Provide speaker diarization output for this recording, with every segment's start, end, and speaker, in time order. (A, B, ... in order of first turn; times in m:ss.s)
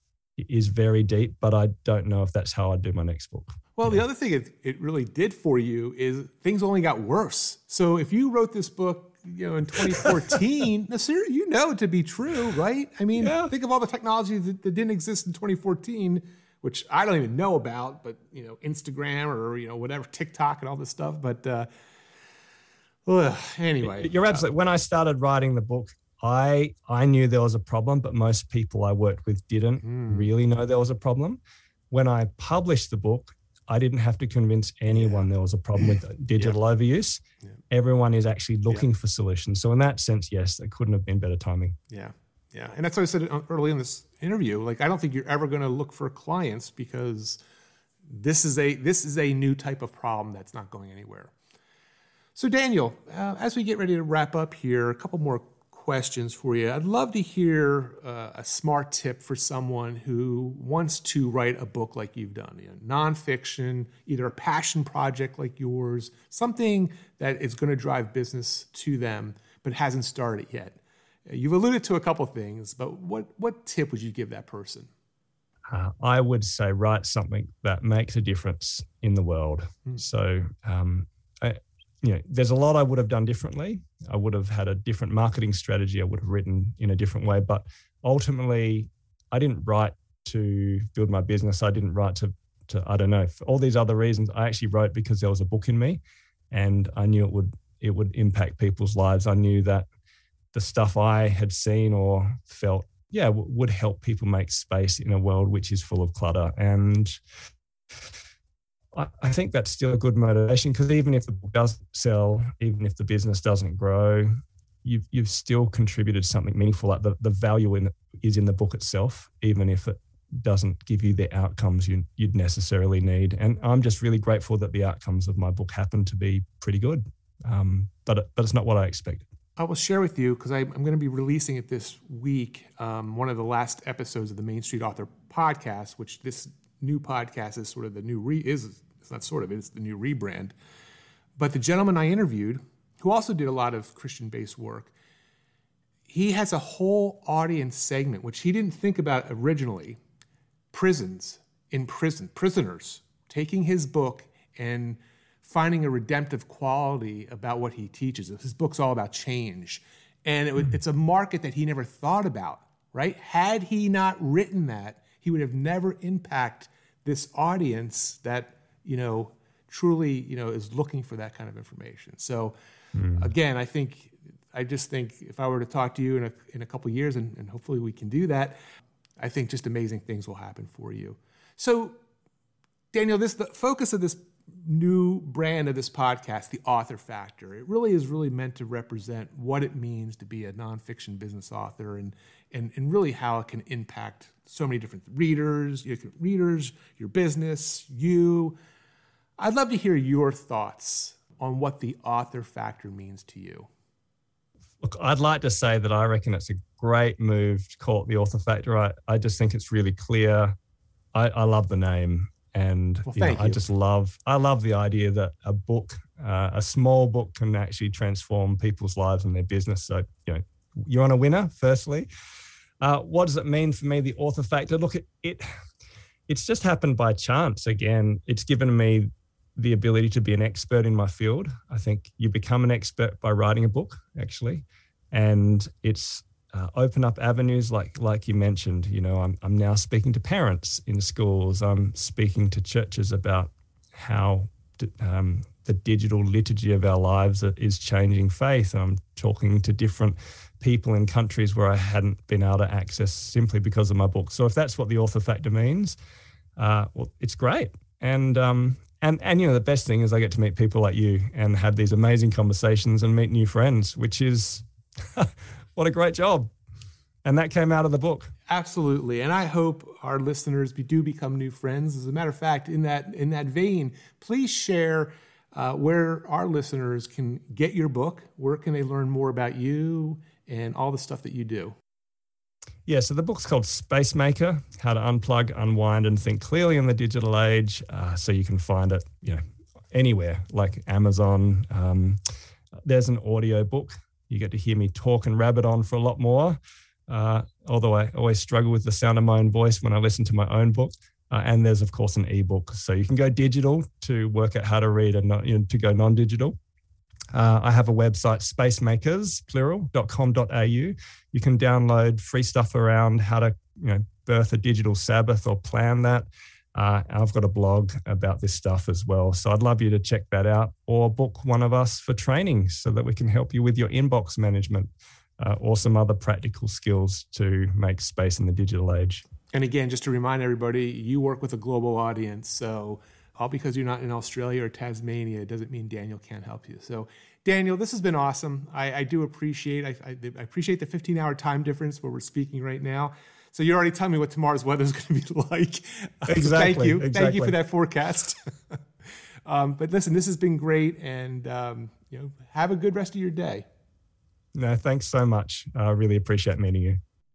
0:00.4-0:04.0 A
0:03.8-0:21.7 B
0:13.2-0:13.5 A
0:23.1-0:24.4 B
0:23.8-0:31.4 A
0:29.8-0:30.3 B
0:31.9-0:41.8 A
0:34.9-0:35.3 B
0:41.9-0:47.4 B
0:48.1-0:51.3 B
0:52.4-1:14.9 B
1:15.7-1:39.9 A
1:40.5-1:47.1 A
1:48.9-1:54.3 A
1:54.8-2:09.3 A
2:09.6-2:20.5 B
2:21.4-2:24.9 B
2:26.1-2:30.0 B
2:30.7-2:52.6 B
2:53.0-2:53.3 A
2:53.1-2:58.6 B
2:59.2-3:02.0 B
3:02.9-3:18.6 B
3:19.4-3:23.7 B
3:24.8-3:30.6 A
3:31.1-3:42.1 A
3:33.1-3:33.6 B
3:42.8-3:45.5 A
3:46.3-4:16.0 A
4:16.6-4:26.5 A
4:27.2-4:28.3 A
4:28.5-4:41.8 B
4:42.9-4:52.2 A
4:52.8-5:06.6 A
5:07.3-5:29.2 A
5:29.5-5:48.8 B
5:46.3-5:47.6 A
5:49.5-5:53.6 B
5:54.6-5:57.0 A